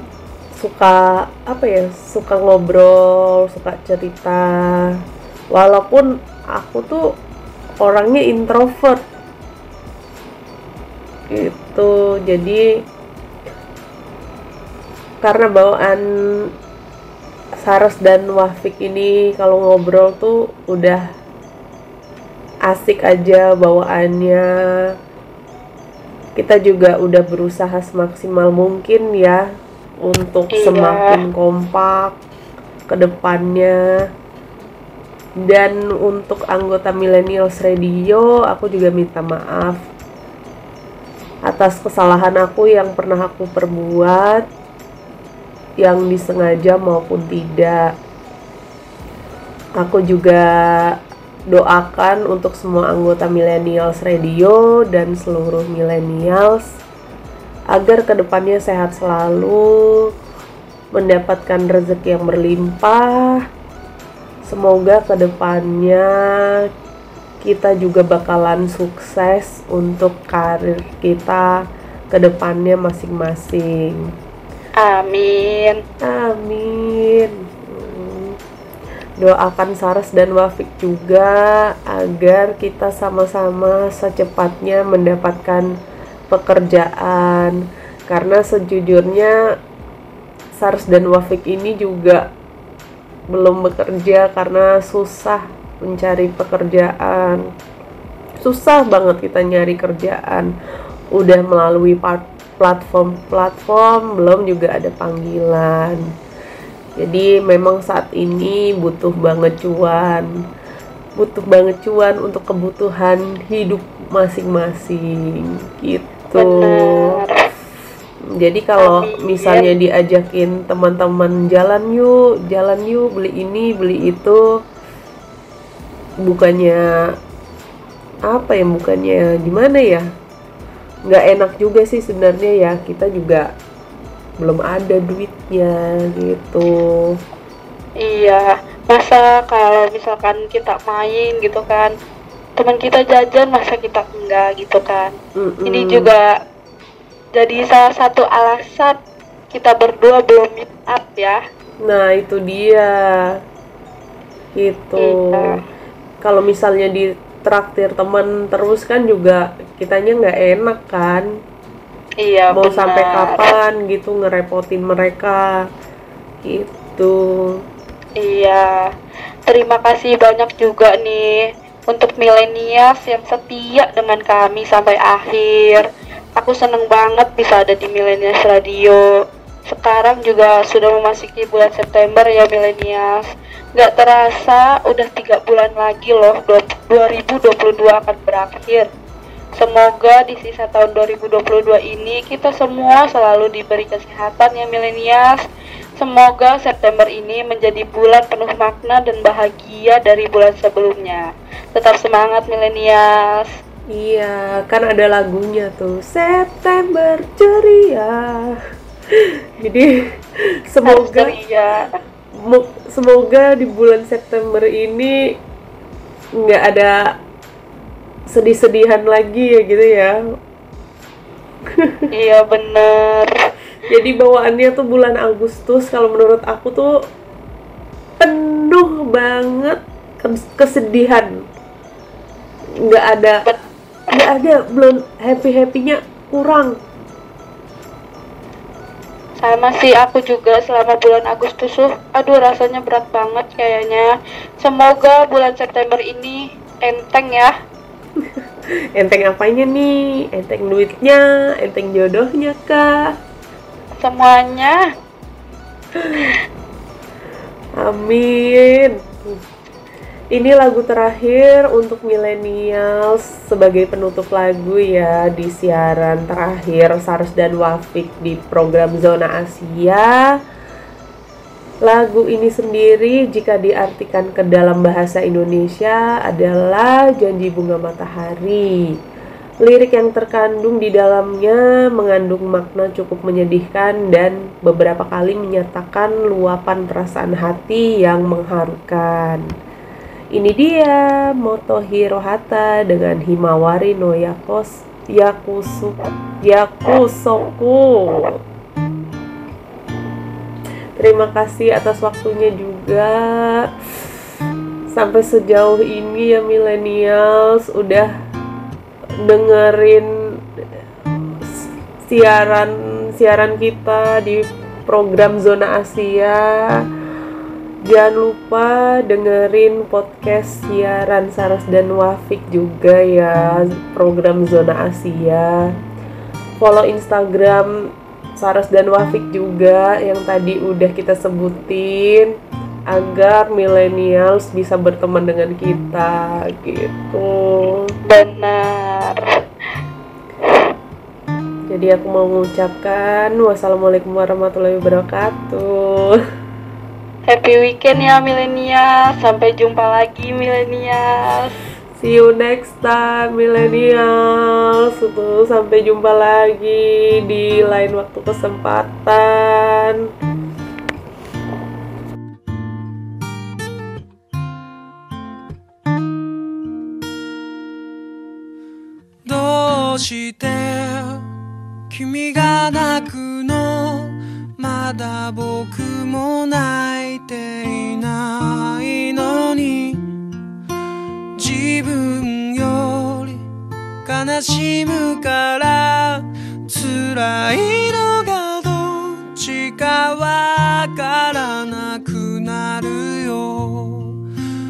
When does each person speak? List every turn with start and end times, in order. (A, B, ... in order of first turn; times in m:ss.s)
0:00.6-0:04.9 A
0:05.5-0:07.0 A
0:07.8-0:09.0 A
0:11.3-0:12.6 A
0:15.2-0:16.0 A
0:17.6-0:21.0 A
0:22.7-0:24.5 A
0:26.4-0:29.4 A
0:30.0-0:32.2 A
0:30.5-0:31.2 B
0:32.9-0:33.8 A
0:35.4-0:39.8 A
0:41.5-0:44.4 A
0:45.8-0:47.9 A
0:49.8-0:50.5 A
0:51.5-0:56.7 A
0:57.7-1:00.1 A
1:00.9-1:03.4 A
1:04.4-1:06.1 A
1:07.4-1:11.5 A
1:12.1-1:14.0 A
1:14.8-1:15.8 B
1:16.0-1:18.4 A
1:19.2-1:25.7 A
1:26.3-1:29.4 A
1:30.6-1:32.3 A
1:33.3-1:37.5 A
1:38.4-1:40.5 A
1:41.1-1:46.0 A
1:47.0-1:50.3 A
1:51.2-1:57.2 A
1:56.4-1:57.4 B
1:58.4-2:04.4 A
1:58.8-1:59.7 B
2:06.2-2:06.9 A
2:08.3-2:10.1 A
2:11.1-2:13.5 A
2:14.4-2:17.1 A
2:18.0-2:21.9 B
2:22.6-2:25.1 B
2:25.4-2:26.1 A
2:25.7-2:26.3 B
2:27.4-2:29.0 B
2:29.5-2:31.4 B
2:31.8-2:33.4 A
2:34.6-2:35.6 A
2:35.0-2:35.6 B
2:36.2-2:41.3 A
2:42.2-2:43.5 B
2:42.5-2:45.5 A
2:46.4-2:47.3 A
2:48.2-2:48.8 B
2:49.5-2:55.8 B
2:56.4-2:59.0 B
2:59.7-3:08.9 B
3:09.6-3:15.4 B
3:16.0-3:21.2 B
3:21.8-3:23.5 B
3:23.9-3:28.6 A
3:29.1-3:29.9 A
3:30.7-3:31.3 A
3:30.8-3:31.8 B
3:32.4-3:35.2 A
3:36.4-3:37.0 A
3:38.3-3:40.2 A
3:41.8-3:42.0 A
3:42.1-3:43.4 B
3:43.9-3:46.9 A
3:48.2-3:51.4 A
3:52.8-3:53.5 A
3:54.1-3:56.8 A
3:59.4-4:07.5 B
4:09.0-4:13.0 A
4:14.0-4:14.9 B
4:17.8-4:19.4 A
4:20.3-4:30.2 A
4:31.8-4:38.9 A
4:39.6-4:49.4 A
4:50.3-4:58.4 A
5:01.0-5:03.7 A
5:04.9-5:08.1 A
5:09.2-5:10.1 A
5:11.4-5:16.6 A
5:17.8-5:25.7 A
5:26.6-5:32.3 A
5:32.9-5:38.0 A
5:38.1-5:39.3 B
5:41.7-5:46.2 A
5:47.3-5:51.5 B
5:52.0-6:00.0 A
6:09.2-6:11.2 C
6:11.9-6:20.1 C
6:21.4-6:23.4 C
6:24.0-6:34.2 C